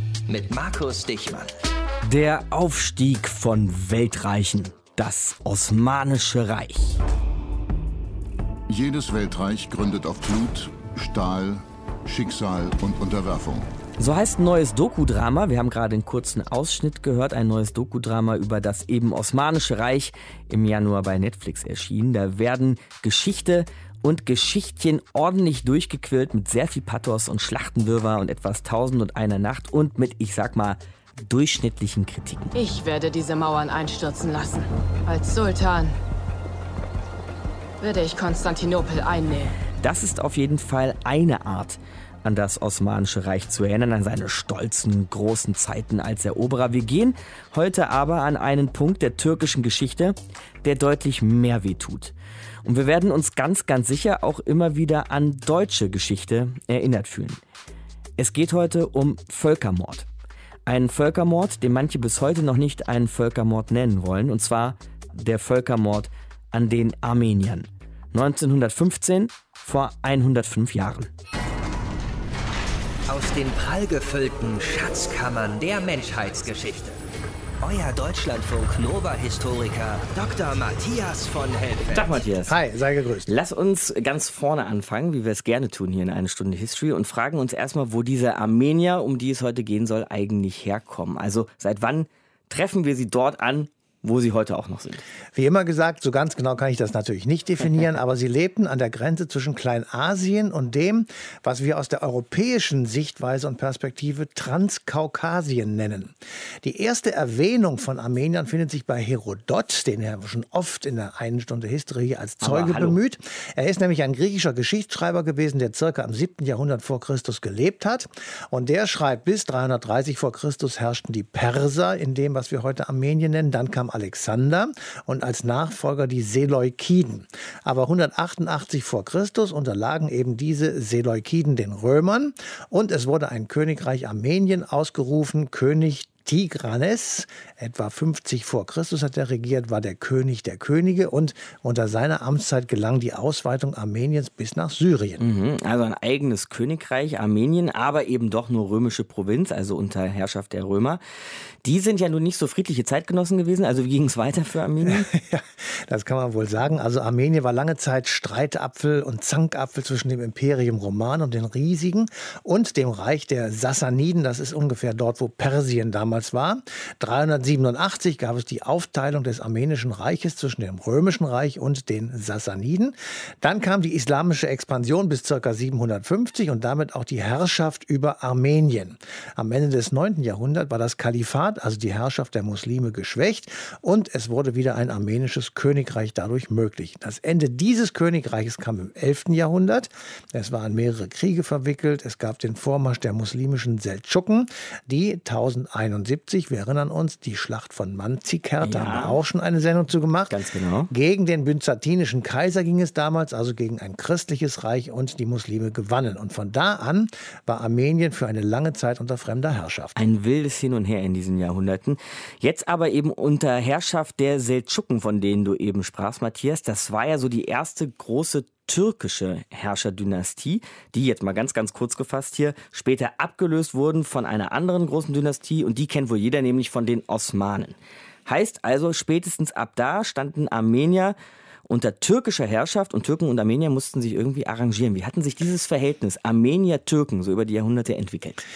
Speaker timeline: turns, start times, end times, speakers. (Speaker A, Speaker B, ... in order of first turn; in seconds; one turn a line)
Speaker A: 0.3-1.5
Speaker B: 2.0-7.0
Speaker C: 8.7-13.7
Speaker B: 14.0-32.5
Speaker D: 32.5-36.0
Speaker D: 37.8-39.5
Speaker B: 39.8-57.4
Speaker B: 58.2-60.1
Speaker B: 60.7-71.1
Speaker A: 73.1-77.0
Speaker A: 77.6-82.2
Speaker B: 81.9-82.6
Speaker E: 82.5-83.3
Speaker B: 83.3-95.0
Speaker E: 95.3-145.2
Speaker B: 112.4-113.0
Speaker B: 145.2-151.0
Speaker B: 151.6-155.1
Speaker E: 154.8-210.0
Speaker B: 198.6-199.2
Speaker B: 200.3-200.9
Speaker B: 210.0-231.2
Speaker B: 231.7-238.4